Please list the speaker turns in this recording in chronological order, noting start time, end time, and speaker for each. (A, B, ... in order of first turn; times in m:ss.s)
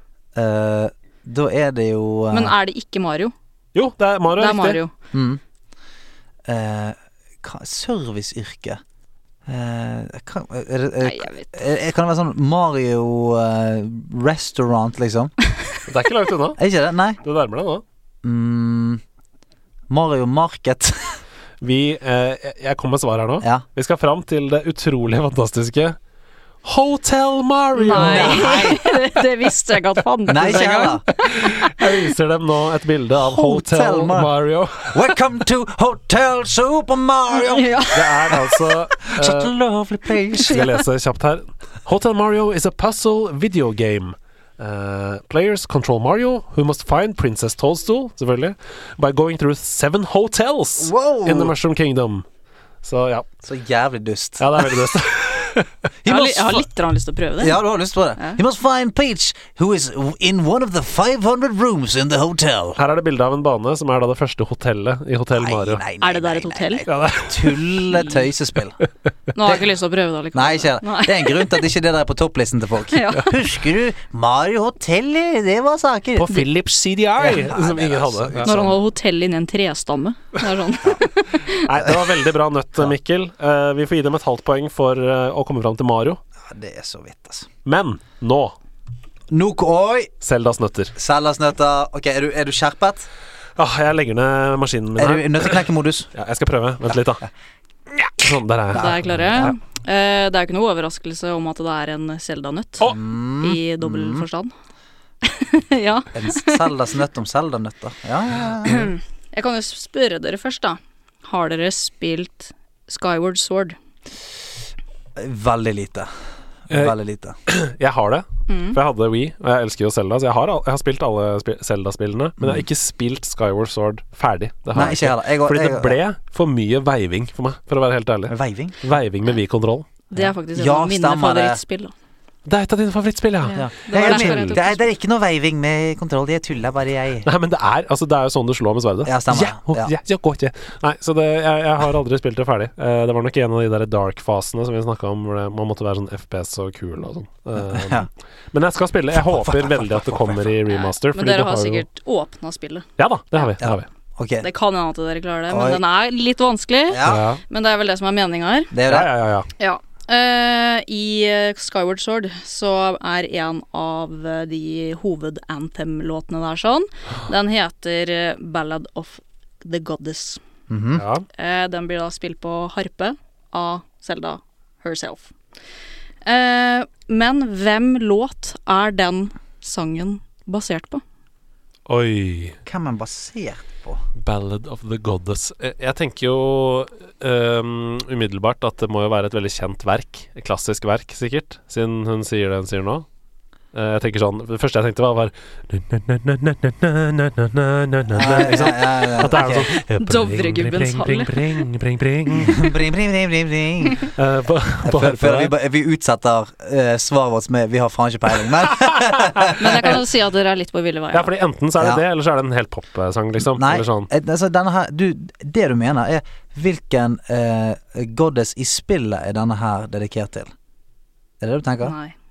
0:00.4-0:02.6 A
0:02.3-0:03.3 B
0:03.8-0:04.8 C
0:04.4-0:04.9 B
0:05.1-0:05.4 A
0:06.5-0:08.8 A
0:09.5-0:15.3 A
0:11.0-0:11.5 B
0:15.9-0:16.6 C
0:16.6-0:17.2 A
0:17.2-0:17.8 C
0:18.2-0:19.0 A
0:19.9-0:21.2 A
0:21.6-0:26.0 C
0:26.6-0:28.6 C
0:27.8-0:32.0 B
0:27.9-0:28.8 A
0:30.3-0:31.0 A
0:30.3-0:30.7 C
0:31.2-0:35.1 C
0:33.1-0:34.3 A
0:34.8-0:37.8 A
0:37.3-0:38.4 B
0:37.9-0:39.5 C
0:39.0-0:40.7 A
0:40.4-0:52.2 C
0:50.8-0:51.5 A
0:52.8-0:53.3 C
0:53.4-0:54.9 A
0:54.4-0:55.7 C
0:56.0-0:56.6 A
0:56.1-0:57.6 B
0:57.4-1:02.8 A
1:02.8-1:05.8 C
1:05.3-1:08.8 A
1:06.0-1:06.9 B
1:06.9-1:07.8 C
1:09.4-1:11.6 B
1:10.3-1:16.3 A
1:12.9-1:13.4 B
1:16.2-1:18.6 C
1:17.2-1:18.8 A
1:18.4-1:21.7 B
1:21.5-1:26.2 C
1:26.4-1:27.5 A
1:27.6-1:28.6 C
1:29.3-1:30.1 A
1:30.2-1:30.9 C
1:31.0-1:33.1 A
1:33.6-1:37.2 C
1:35.0-1:36.1 A
1:38.1-1:39.5 C
1:38.7-1:39.5 A
1:38.7-1:42.9 B
1:42.8-1:44.2 A
1:43.4-1:44.5 B
1:45.2-1:46.7 B
1:46.1-1:48.9 A
1:48.6-1:53.8 B
1:55.2-1:56.1 A
1:56.7-1:57.4 A
1:56.7-1:57.0 C
1:57.5-2:09.9 C
1:58.5-1:58.8 B
2:02.4-2:02.7 A
2:04.7-2:06.0 A
2:08.3-2:08.8 A
2:10.1-2:11.6 A
2:10.1-2:11.9 B
2:12.5-2:14.6 C
2:13.4-2:14.9 B
2:13.6-2:17.3 A
2:17.2-2:31.9 C
2:19.0-2:19.9 A
2:27.6-2:28.1 A
2:29.1-2:30.5 A
2:30.7-2:32.9 B
2:33.0-2:33.9 C
2:33.6-2:34.5 A
2:34.4-2:38.7 B
2:35.5-2:35.8 A
2:36.9-2:37.3 A
2:37.0-2:37.4 C
2:38.7-2:39.1 A
2:38.9-2:39.5 C
2:39.6-2:50.4 B
2:50.7-2:51.0 A
2:51.0-2:51.3 C
2:51.3-2:55.3 B
2:56.2-3:01.0 B
3:01.9-3:02.6 C
3:02.7-3:04.0 A
3:04.2-3:13.1 C
3:13.7-3:22.6 C
3:18.1-3:19.7 A
3:20.0-3:21.5 B
3:22.4-3:24.1 A
3:24.1-3:25.5 C
3:24.8-3:30.0 A
3:29.4-3:30.0 C
3:29.6-3:31.3 B
3:31.1-3:34.1 C
3:31.8-3:32.0 A
3:33.5-3:40.5 A
3:41.4-3:42.0 A
3:41.8-3:42.2 B